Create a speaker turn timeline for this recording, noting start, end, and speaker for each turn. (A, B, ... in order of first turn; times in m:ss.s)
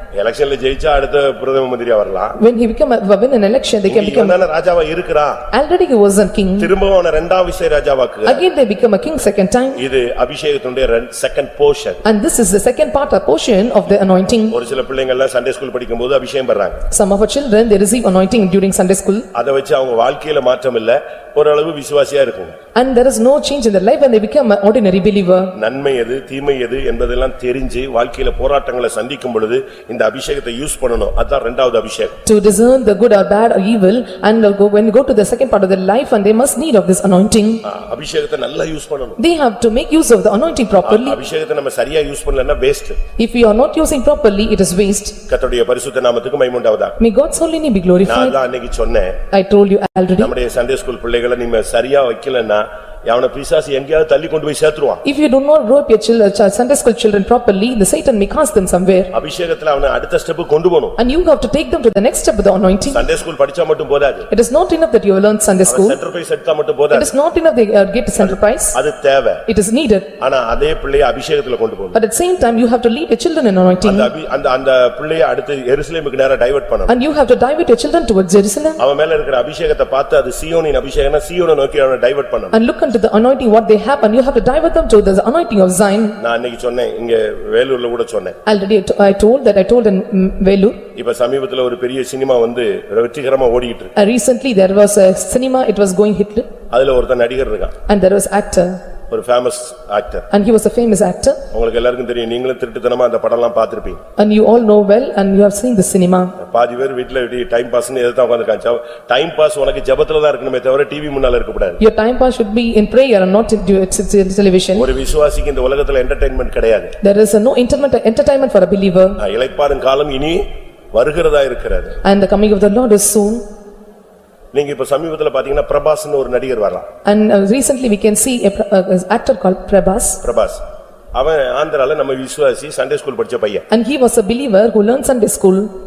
0:00.2-0:02.4 A
0:02.4-0:04.4 B
0:03.8-0:05.4 A
0:05.5-0:06.7 B
0:06.6-0:08.4 A
0:08.2-0:09.8 B
0:09.8-0:12.0 A
0:12.0-0:14.6 B
0:14.5-0:16.8 A
0:16.9-0:19.3 B
0:19.4-0:22.6 A
0:22.8-0:25.5 B
0:25.6-0:32.2 A
0:32.3-0:37.6 B
0:37.6-0:39.2 A
0:39.2-0:41.2 B
0:40.8-0:43.0 A
0:43.2-0:45.2 B
0:45.3-0:47.0 A
0:47.0-0:48.4 B
0:48.0-0:49.2 A
0:49.3-0:50.3 B
0:50.2-0:55.0 A
0:55.0-0:59.1 B
0:59.1-1:01.0 A
1:01.0-1:03.1 B
1:02.9-1:04.3 A
1:04.3-1:06.0 B
1:05.7-1:07.1 A
1:06.9-1:08.8 B
1:08.2-1:09.4 A
1:09.5-1:10.1 B
1:10.2-1:12.0 A
1:11.9-1:14.1 B
1:13.8-1:16.9 A
1:16.9-1:18.8 B
1:18.8-1:22.6 A
1:22.5-1:26.2 B
1:26.2-1:28.4 A
1:28.5-1:30.8 B
1:31.0-1:33.9 A
1:34.0-1:36.5 B
1:36.7-1:37.7 A
1:37.9-1:38.8 B
1:39.1-1:40.3 A
1:40.3-1:41.4 B
1:41.5-1:44.0 A
1:44.2-1:46.3 B
1:46.4-1:51.8 A
1:51.8-1:54.9 B
1:54.8-1:56.9 A
1:57.0-1:59.2 B
1:59.2-2:02.0 A
2:02.0-2:03.4 B
2:04.5-2:06.9 A
2:07.0-2:10.2 B
2:10.2-2:10.6 A
2:11.1-2:13.6 A
2:13.7-2:15.7 B